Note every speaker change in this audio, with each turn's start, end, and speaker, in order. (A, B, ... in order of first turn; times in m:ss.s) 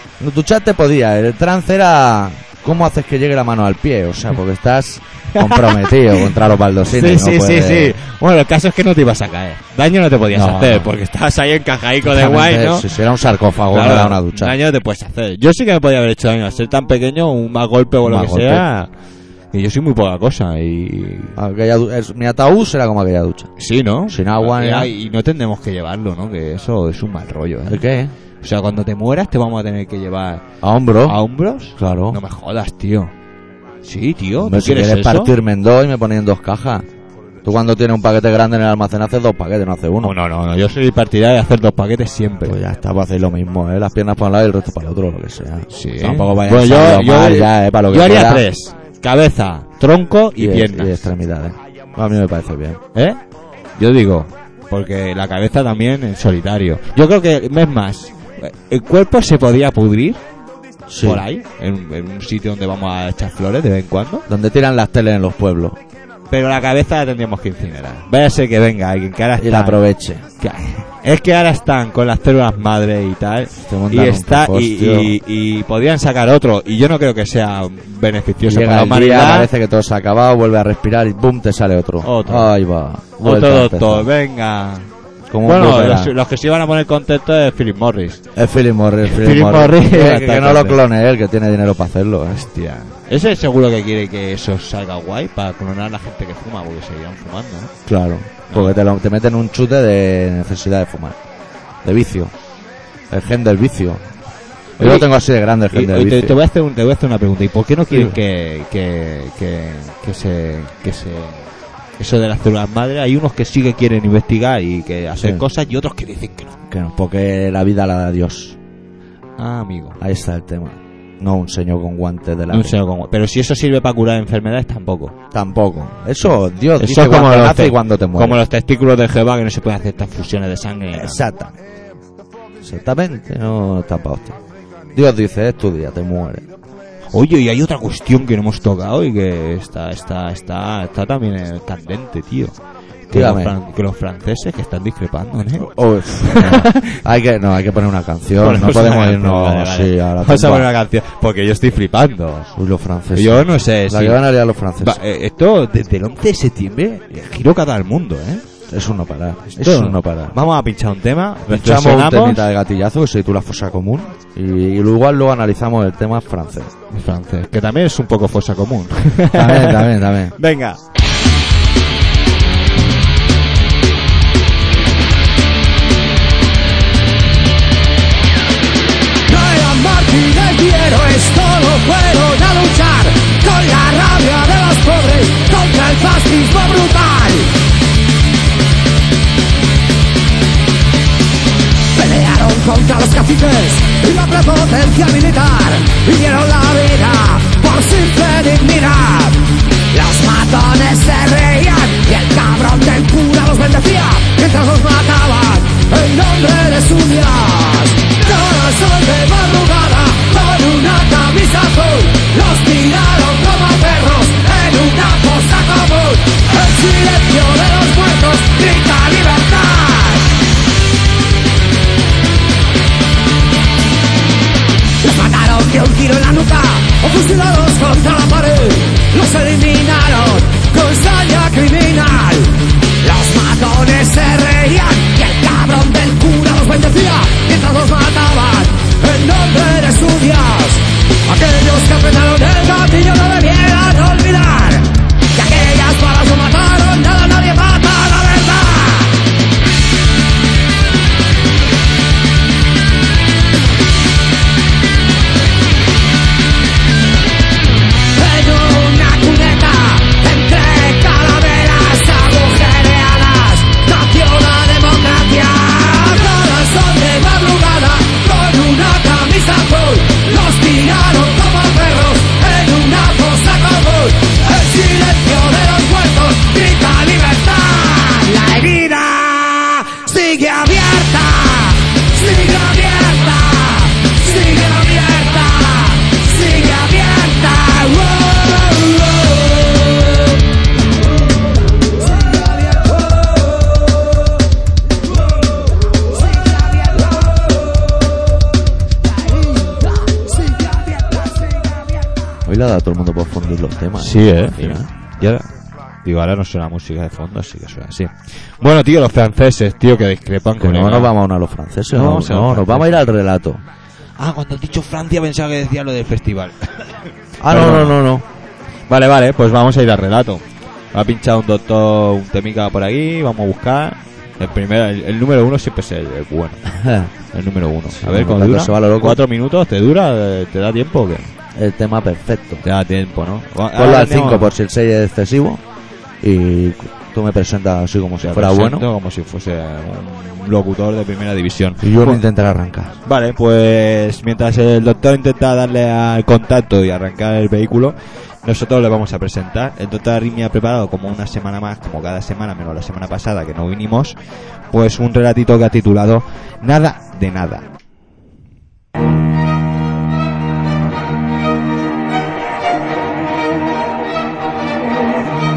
0:00.2-0:08.0 A
0:05.4-0:06.3 B
0:06.8-0:12.9 B
0:10.3-0:10.9 A
0:12.0-0:14.6 A
0:13.7-0:18.9 B
0:18.0-0:18.7 A
0:19.5-0:21.4 B
0:21.4-0:23.5 A
0:23.6-0:27.9 B
0:24.1-0:24.9 A
0:27.7-0:28.2 A
0:28.4-0:30.4 B
0:30.6-0:31.2 A
0:31.0-0:33.1 B
0:31.8-0:32.2 A
0:33.8-0:35.3 B
0:34.4-0:36.9 A
0:37.4-0:40.2 A
0:40.0-0:42.6 B
0:42.4-0:48.5 A
0:45.7-0:51.1 B
0:50.4-0:52.8 A
0:53.8-1:00.2 B
1:00.9-1:01.2 A
1:01.0-1:04.3 B
1:04.3-1:05.8 A
1:06.3-1:09.8 B
1:09.4-1:10.2 A
1:10.4-1:19.5 B
1:13.6-1:15.1 A
1:18.4-1:24.1 A
1:22.0-1:22.5 B
1:23.2-1:24.9 B
1:25.3-1:26.1 A
1:25.4-1:28.2 B
1:28.4-1:32.5 A
1:29.0-1:30.8 B
1:32.3-1:37.7 B
1:37.8-1:41.2 A
1:38.5-1:38.8 B
1:41.8-1:42.3 A
1:43.1-1:44.1 A
1:44.8-1:45.1 B
1:44.8-1:46.4 A
1:45.7-1:56.6 B
1:47.9-1:48.2 A
1:56.7-1:58.6 A
1:59.4-2:00.0 B
2:00.0-2:02.8 A
2:02.5-2:05.1 B
2:05.3-2:08.4 A
2:06.8-2:11.2 B
2:10.9-2:11.5 A
2:12.6-2:14.4 A
2:14.9-2:16.5 A
2:17.1-2:22.6 B
2:23.1-2:27.0 B
2:23.1-2:23.6 A
2:25.6-2:30.7 A
2:28.4-2:32.5 B
2:32.6-2:35.0 A
2:33.1-2:34.2 B
2:34.8-2:38.4 B
2:38.7-2:40.4 A
2:39.5-2:42.5 B
2:41.5-2:46.7 A
2:46.9-2:50.8 B
2:49.3-2:50.4 A
2:59.3-3:07.6 C
3:11.9-3:40.3 C
3:45.0-4:09.2 C
4:18.2-4:49.9 C
4:52.1-4:53.5 C
4:56.1-4:57.5 C
4:59.2-5:01.6 C
5:02.4-5:04.9 A
5:04.0-5:05.5 B
5:06.0-5:11.1 B
5:10.6-5:13.6 A
5:11.9-5:13.0 B
5:14.2-5:17.0 B
5:17.4-5:18.3 A
5:17.5-5:18.0 B
5:18.9-5:26.6 B
5:26.7-5:27.1 A
5:27.3-5:31.3 B
5:28.0-5:29.2 A
5:31.6-5:32.6 A
5:32.6-5:34.5 B
5:33.8-5:35.6 A
5:36.2-5:38.9 A
5:38.2-5:42.2 B
5:41.8-5:43.0 A
5:43.0-5:54.2 B
5:54.7-5:57.7 B